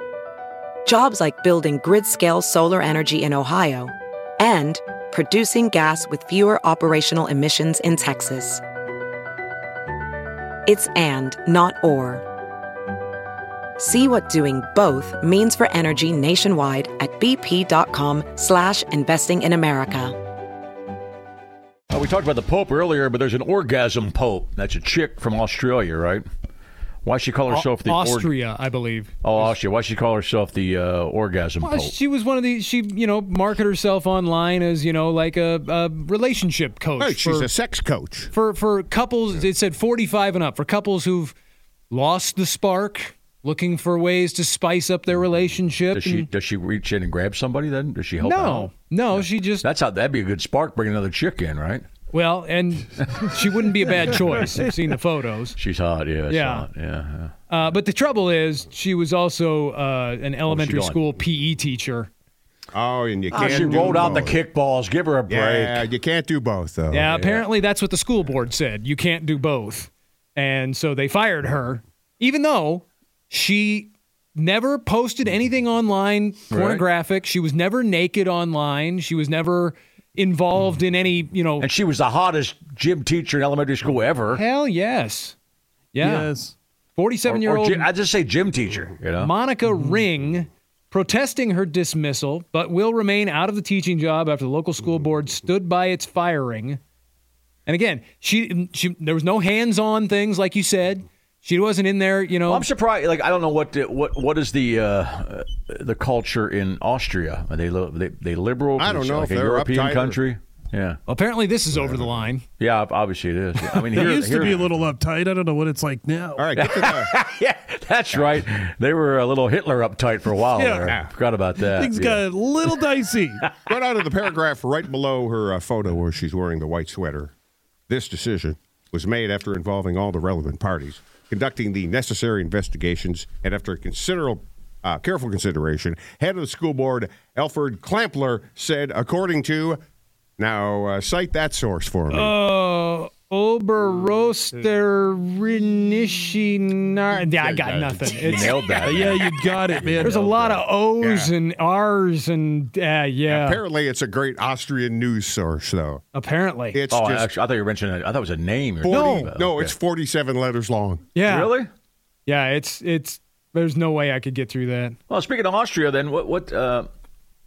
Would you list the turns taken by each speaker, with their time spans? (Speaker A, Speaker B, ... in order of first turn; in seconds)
Speaker A: 0.9-8.6, 10.7-12.2, 13.8-20.2
Speaker B: 21.9-26.2, 27.1-28.3, 29.2-31.9, 45.9-51.8, 55.6-57.3, 60.5-61.0, 63.3-65.9, 67.0-67.5, 76.5-76.8, 81.6-84.4, 87.3-89.3, 102.5-111.0, 112.6-114.7, 116.6-122.2, 148.2-150.6, 156.9-159.8, 161.2-161.7, 165.1-166.9
Speaker C: 27.5-29.2, 31.6-37.5, 38.3-41.4, 41.9-46.3, 48.2-49.7, 52.1-55.6, 56.3-56.7, 57.5-62.1, 63.4-63.8, 66.9-81.7, 84.3-85.4, 85.9-86.3, 87.0-87.9, 89.2-96.8, 97.7-102.7, 111.1-112.5, 142.1-149.1, 150.0-153.6, 156.1-156.8, 158.9-159.3, 161.2-161.6, 162.3-165.0
Speaker D: 37.0-38.3, 62.7-64.4, 65.3-67.1, 108.8-110.2, 111.7-112.3, 116.4-117.1, 123.7-127.3, 127.9-139.8, 140.4-142.3, 147.2-148.2, 151.0-151.3, 153.3-156.0, 156.7-157.3, 158.8-161.1
Speaker E: 86.0-86.5, 113.6-116.5, 120.5-121.0, 121.6-123.4, 148.8-150.3